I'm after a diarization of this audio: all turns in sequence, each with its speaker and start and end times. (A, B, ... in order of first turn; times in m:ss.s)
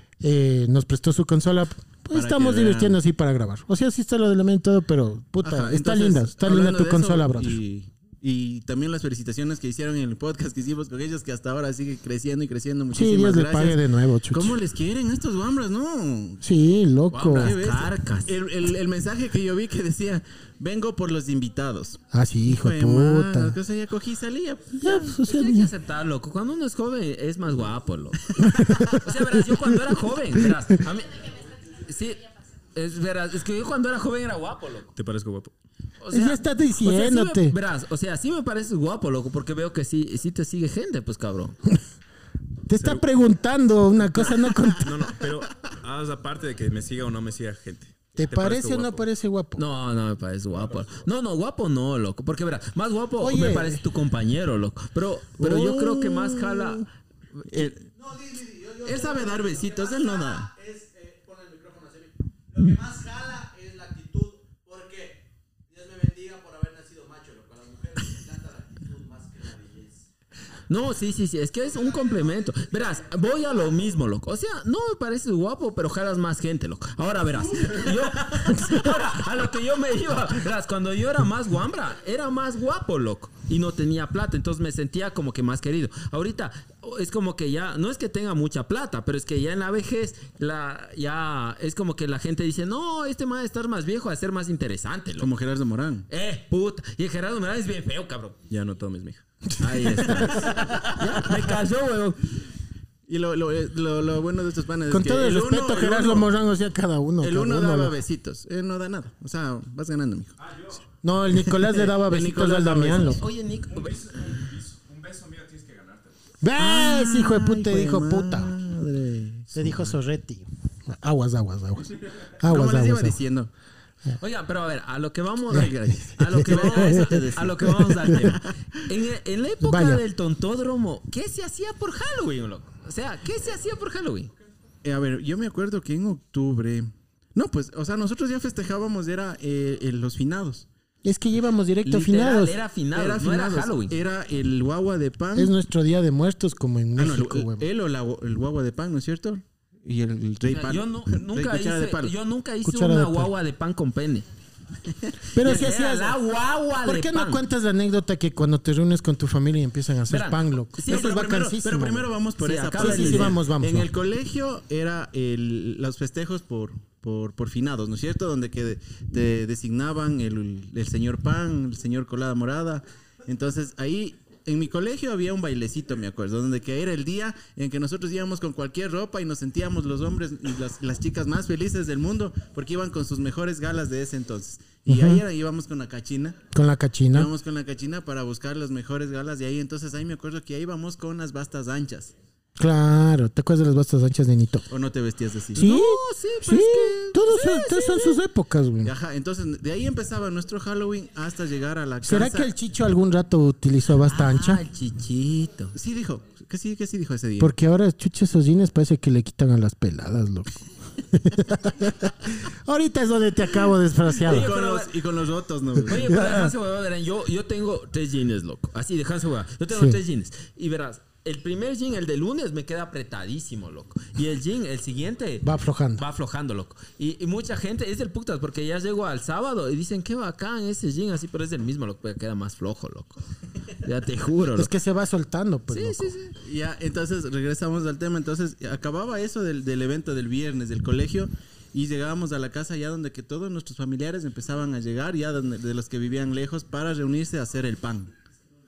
0:00.2-0:07.6 A
0:02.1-0:03.0 B
0:05.4-0:16.4 B
0:12.9-0:14.6 A
0:16.4-0:17.6 A
0:17.1-0:18.3 C
0:17.3-0:25.0 B
0:22.1-0:23.6 A
0:24.8-0:25.7 A
0:24.9-0:34.9 C
0:28.5-0:29.7 A
0:35.0-0:35.5 D
0:36.0-0:41.6 C
0:36.1-0:37.6 A
0:42.7-0:44.9 A
0:42.7-0:43.1 D
0:44.0-0:49.1 D
0:48.2-0:49.6 A
0:49.6-0:56.9 C
0:53.2-0:53.8 A
0:55.4-0:56.9 B
0:57.4-0:57.7 C
0:57.5-0:57.9 B
0:58.1-1:10.0 E
0:58.8-1:00.5 B
1:10.7-1:35.3 C
1:35.2-1:36.1 B
1:36.1-1:38.4 C
1:38.5-1:39.2 D
1:39.6-1:40.5 A
1:39.6-1:42.2 C
1:43.1-1:46.3 B
1:44.9-1:48.0 A
1:47.2-1:50.3 B
1:51.0-1:53.2 A
1:51.3-1:53.2 B
1:52.9-1:54.2 C
1:53.7-1:56.2 D
1:56.4-1:58.5 A
1:56.6-1:59.7 B
1:59.5-2:03.2 A
2:02.4-2:03.5 B
2:04.2-2:14.3 C
2:05.5-2:07.1 A
2:05.5-2:08.5 B
2:09.6-2:10.0 A
2:14.8-2:20.7 B
2:21.0-2:22.6 A
2:21.9-2:24.0 C
2:22.9-2:25.5 B
2:25.4-2:27.7 A
2:27.0-2:32.2 B
2:30.5-2:34.3 C
2:32.6-2:33.3 A
2:35.3-2:36.2 A
2:35.4-2:37.4 C
2:36.8-2:42.1 A
2:40.1-2:41.2 C
2:40.8-3:06.4 B
2:42.4-2:43.4 C
2:42.8-2:43.9 A
3:04.9-3:05.2 A
3:06.5-3:07.3 A
3:07.1-3:12.1 B
3:12.6-3:14.7 A
3:14.7-3:15.6 B
3:15.6-3:18.2 C
3:15.6-3:18.9 A
3:18.8-3:22.5 B
3:22.0-3:24.6 A
3:24.0-3:25.7 C
3:25.7-3:27.6 B
3:27.4-3:34.5 A
3:34.2-3:36.2 B
3:34.2-3:34.9 C
3:35.9-3:53.2 C
3:36.0-3:36.5 A
3:39.7-3:40.0 A
3:45.4-3:46.0 A
3:53.8-3:54.7 C
3:54.6-3:56.2 A
3:55.7-3:56.4 C
3:56.4-4:08.1 B